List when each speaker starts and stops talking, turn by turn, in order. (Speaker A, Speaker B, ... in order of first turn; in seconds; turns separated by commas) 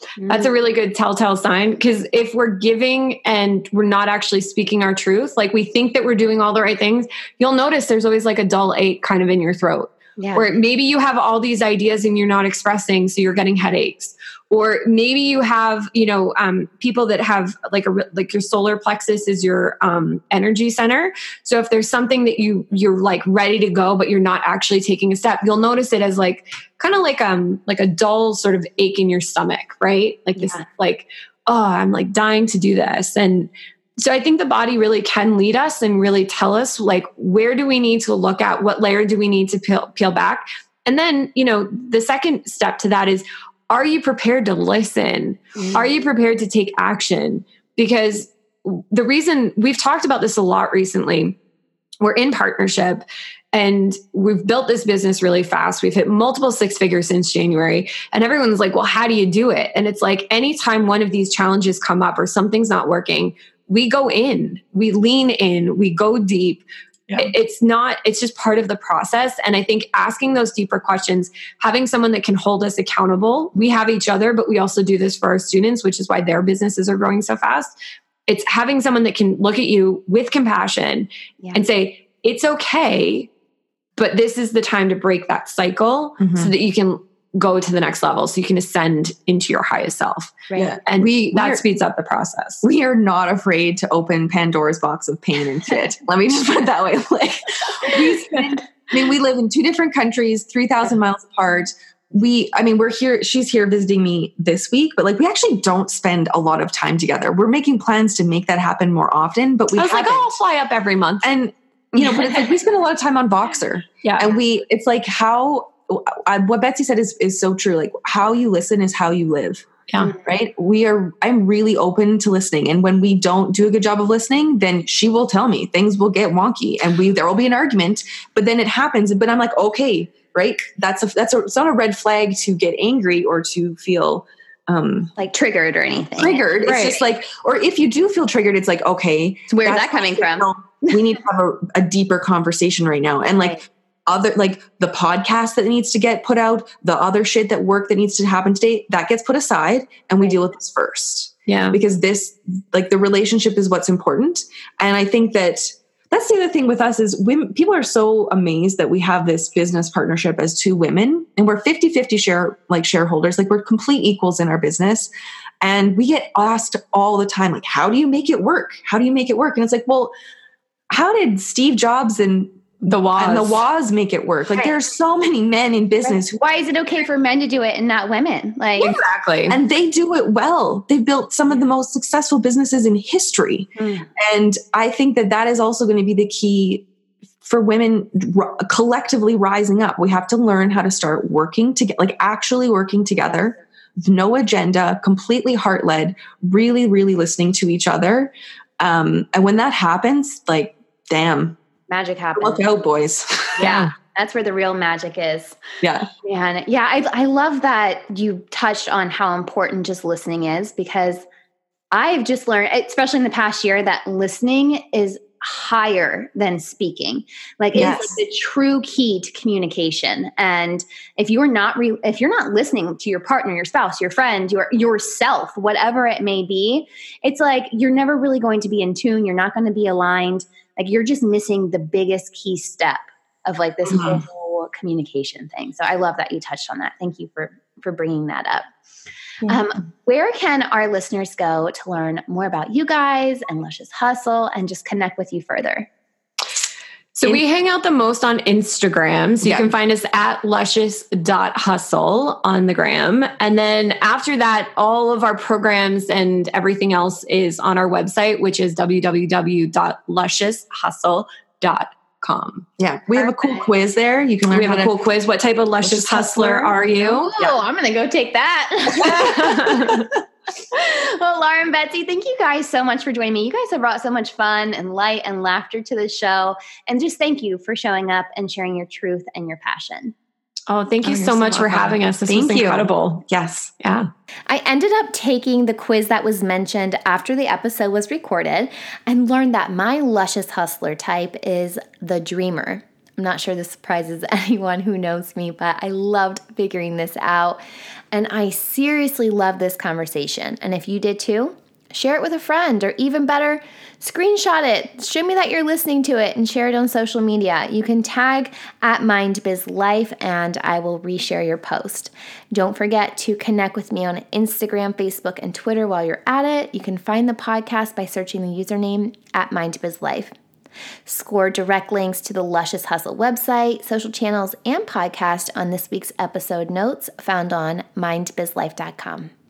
Speaker A: 0.2-0.5, Speaker B: 0.3-51.4, Speaker A: 10.2-10.6, Speaker A: 30.4-30.6, Speaker A: 45.6-45.8, Speaker B: 52.0-77.7, Speaker B: 78.3-83.3, Speaker B: 84.0-92.6, Speaker C: 86.2-86.5, Speaker A: 90.5-90.8, Speaker C: 90.5-91.6, Speaker C: 92.6-110.4, Speaker B: 109.8-111.3, Speaker C: 111.2-119.7, Speaker A: 111.9-112.5, Speaker B: 114.0-114.3, Speaker C: 120.2-135.1, Speaker A: 135.2-137.0, Speaker C: 136.2-165.1, Speaker B: 136.6-137.0, Speaker A: 139.5-140.9, Speaker B: 151.5-151.8, Speaker C: 165.6-170.1, Speaker C: 170.9-172.6, Speaker B: 172.8-173.6, Speaker C: 173.2-176.4, Speaker A: 176.0-179.0, Speaker B: 178.8-179.6, Speaker C: 179.5-186.8, Speaker A: 183.8-184.1, Speaker C: 187.4-201.6, Speaker A: 201.9-202.8, Speaker C: 202.4-203.8, Speaker A: 203.6-205.6, Speaker B: 203.6-203.9, Speaker C: 205.8-206.1, Speaker A: 206.2-211.3, Speaker A: 211.9-238.7, Speaker C: 217.7-218.2, Speaker C: 233.9-234.2, Speaker A: 239.4-245.9, Speaker B: 247.2-262.7, Speaker C: 249.4-249.7, Speaker C: 262.8-265.0, Speaker A: 263.1-263.7, Speaker B: 264.5-267.3, Speaker C: 265.8-266.8, Speaker A: 267.0-270.1, Speaker B: 269.0-270.1, Speaker A: 270.7-280.1, Speaker B: 280.7-283.2, Speaker C: 281.1-283.7, Speaker B: 283.8-284.1, Speaker A: 284.5-297.6, Speaker A: 298.1-320.3, Speaker A: 321.1-329.3